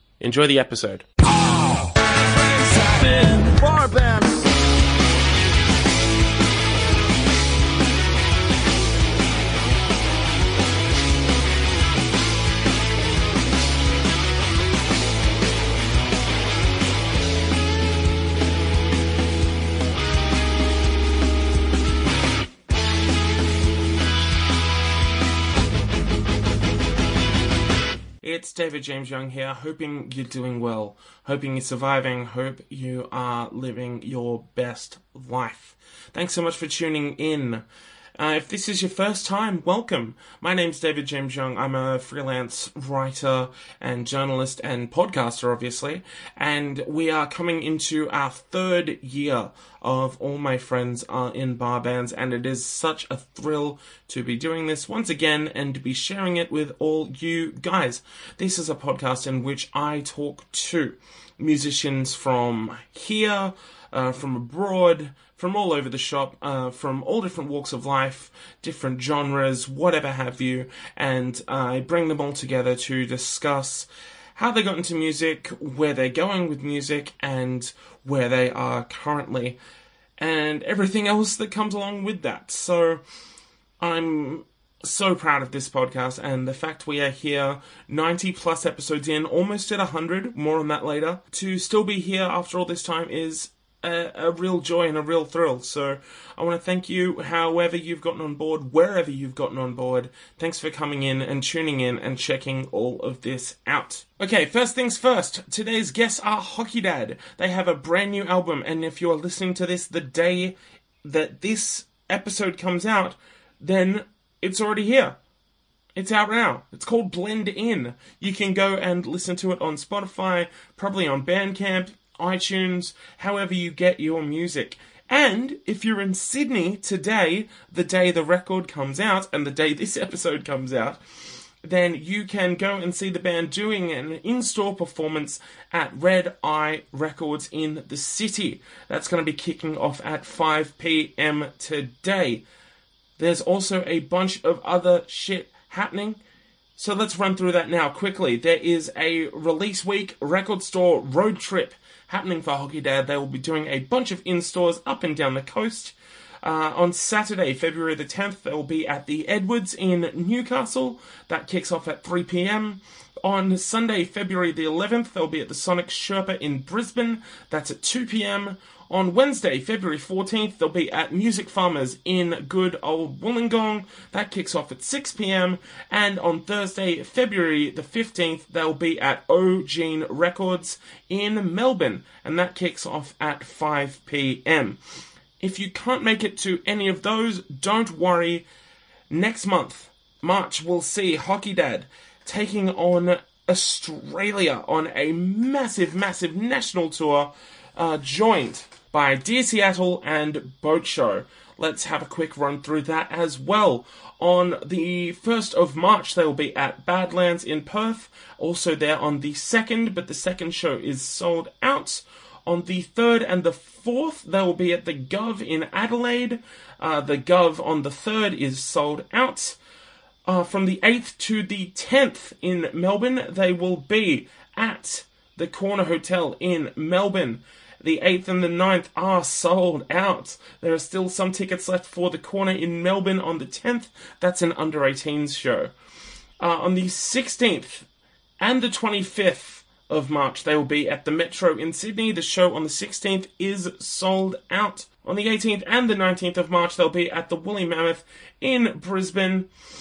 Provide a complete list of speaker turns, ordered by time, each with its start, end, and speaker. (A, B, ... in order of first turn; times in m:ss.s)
0:00.2-0:01.1 A
0:03.1-0:04.1 A
0:28.2-0:37.6 A
0:38.2-1:19.6 A
1:20.2-1:23.0 A
1:23.8-1:55.2 A
1:56.0-2:11.0 A
2:11.6-2:22.4 A
2:23.2-2:26.2 A
2:26.8-3:04.8 A
3:05.4-3:08.4 A
3:09.1-3:39.6 A
3:40.2-3:55.7 A
3:56.4-3:57.9 A
3:58.4-4:09.5 A